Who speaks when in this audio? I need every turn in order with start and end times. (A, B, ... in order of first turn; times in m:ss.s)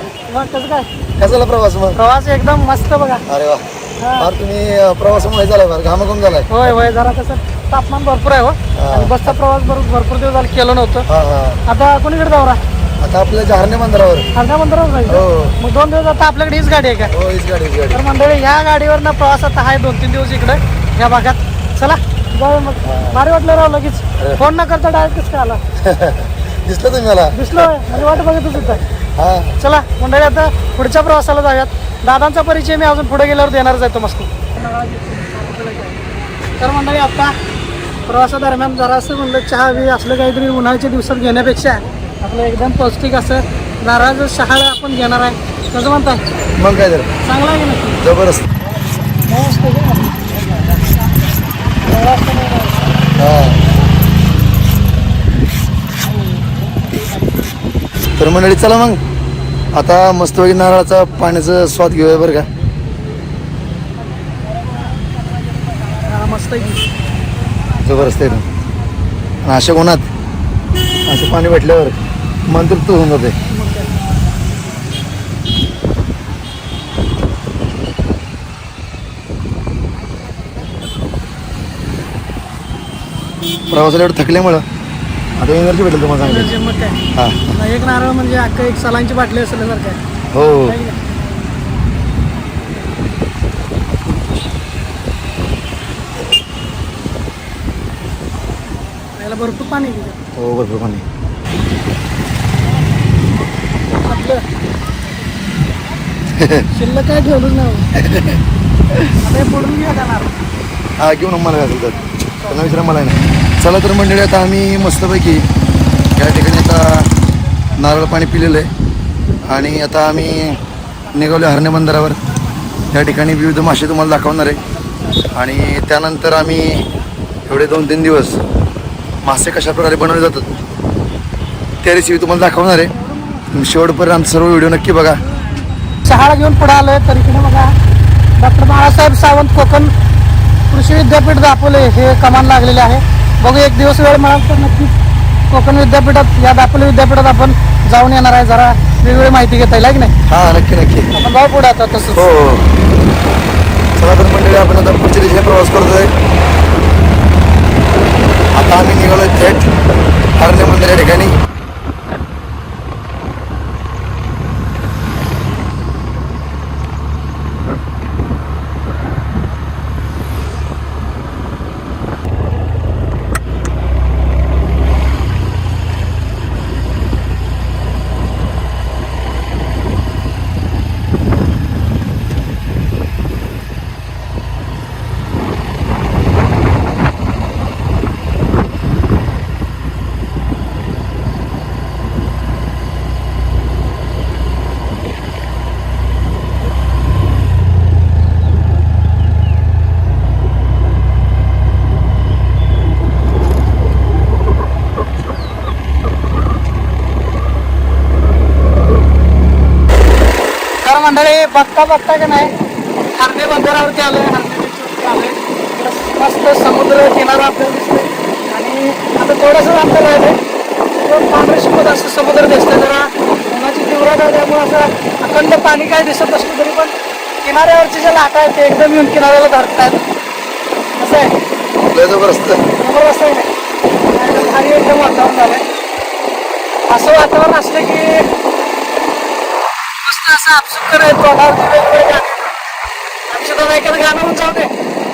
0:00.3-0:00.9 A
0:01.2-0:02.0 B
0:02.0-0:03.2 A
0:03.3-0:03.6 B
0:04.0-0:04.3 A
0:04.2-0:06.5 B
0:06.5-0:11.1 A
0:08.8-0:09.3 B
0:11.1-0:11.6 B
0:11.7-0:12.6 A
0:13.0-0:14.3 B
0:14.4-0:17.1 A
0:15.1-0:15.5 B
0:17.1-0:18.0 B
0:17.9-0:25.6 A
0:22.9-0:23.2 B
0:25.8-0:27.4 B
0:27.3-0:28.8 A
0:29.2-0:29.5 B
0:29.6-0:36.0 A
0:36.6-0:37.3 A
0:38.1-0:46.2 A
0:46.6-0:47.1 B
0:47.2-0:48.0 A
0:48.0-0:48.4 B
0:49.3-0:50.2 A
0:51.9-0:52.8 A
0:53.2-0:53.6 B
0:58.2-0:59.0 B
0:59.8-1:02.5 B
1:06.1-1:06.8 A
1:07.9-1:08.4 B
1:09.4-1:10.1 B
1:11.1-1:12.0 B
1:12.5-1:13.3 B
1:13.5-1:13.9 A
1:23.7-1:24.6 B
1:25.4-1:26.5 B
1:26.2-1:27.0 A
1:27.5-1:30.0 A
1:30.3-1:30.8 B
1:30.6-1:31.0 A
1:39.2-1:40.2 A
1:40.4-1:41.0 B
1:44.0-1:44.4 A
1:46.4-1:46.6 B
1:46.7-1:47.9 A
1:48.0-1:48.4 B
1:49.2-1:50.3 A
1:51.0-1:55.5 B
1:56.2-1:57.1 B
1:57.8-1:58.7 B
1:59.5-2:00.6 B
2:01.2-2:02.2 B
2:02.9-2:04.6 B
2:05.4-2:06.9 B
2:07.5-2:08.4 B
2:09.2-2:10.5 B
2:11.8-2:12.9 B
2:13.5-2:15.2 B
2:16.0-2:17.7 A
2:18.4-2:19.9 A
2:20.7-2:25.0 A
2:25.5-2:30.1 A
2:30.3-2:31.1 B
2:31.1-2:32.3 A
2:32.1-2:32.6 B
2:34.0-2:36.1 B
2:38.6-2:39.7 B
2:40.4-2:41.3 B
3:30.8-3:32.5 A
3:33.2-3:40.4 A
3:41.0-3:50.0 A
3:51.0-3:51.3 A
3:51.9-3:52.6 B
3:52.8-3:53.5 A
3:54.1-3:55.6 A
3:54.3-3:54.6 B
3:56.9-3:58.3 A
4:00.0-4:02.7 A
4:03.3-4:04.7 A